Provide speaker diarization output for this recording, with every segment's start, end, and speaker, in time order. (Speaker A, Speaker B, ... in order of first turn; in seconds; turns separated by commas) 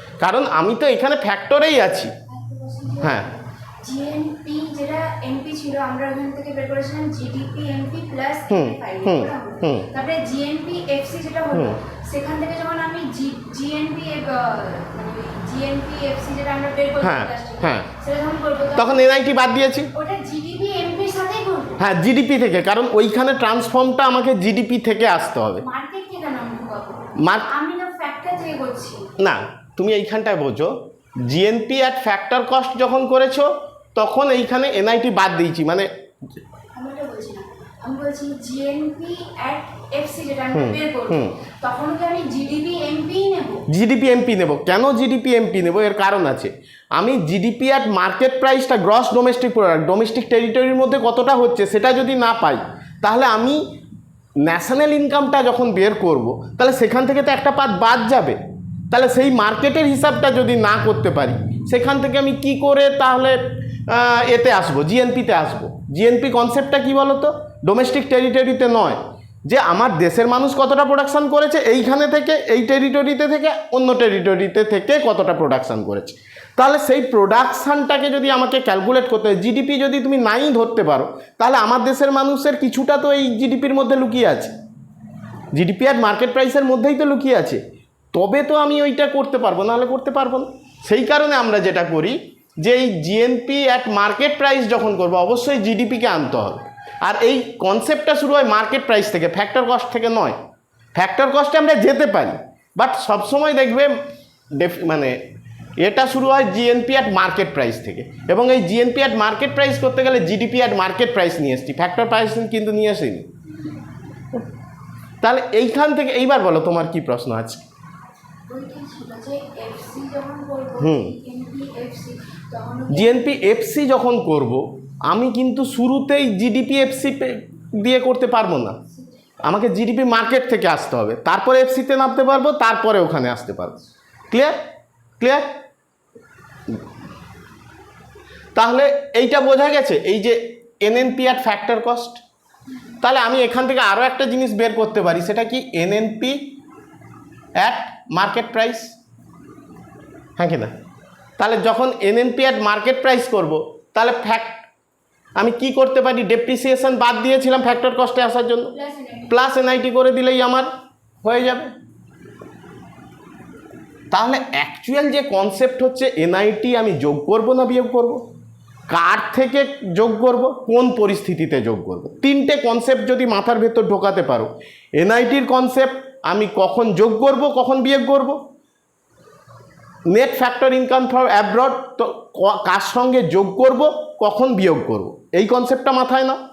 Speaker A: 0.2-2.1, Speaker B: 2.3-19.2, Speaker A: 3.0-3.3, Speaker A: 8.5-9.9, Speaker A: 11.5-11.8, Speaker A: 17.0-17.9, Speaker A: 18.8-19.9, Speaker B: 19.9-21.8, Speaker A: 21.8-25.6, Speaker B: 25.6-29.1, Speaker A: 27.2-27.5, Speaker A: 29.2-35.9, Speaker B: 36.7-43.6, Speaker A: 40.5-41.4, Speaker A: 43.7-53.6, Speaker A: 54.4-58.4, Speaker A: 58.9-84.5, Speaker A: 85.5-87.6, Speaker A: 88.1-100.4, Speaker A: 100.9-103.9, Speaker A: 104.5-105.2, Speaker A: 105.8-113.3, Speaker A: 115.2-117.6, Speaker B: 118.5-123.3, Speaker A: 120.8-121.2, Speaker A: 122.9-128.8, Speaker A: 129.4-133.8, Speaker A: 135.2-135.4, Speaker A: 138.5-142.2, Speaker A: 143.0-146.4, Speaker A: 147.6-148.9, Speaker A: 150.4-150.7, Speaker A: 151.4-154.6, Speaker A: 155.4-158.7, Speaker B: 158.7-159.3, Speaker A: 159.3-160.7, Speaker A: 161.2-161.7, Speaker A: 164.1-168.2, Speaker A: 168.9-178.4, Speaker A: 180.1-186.4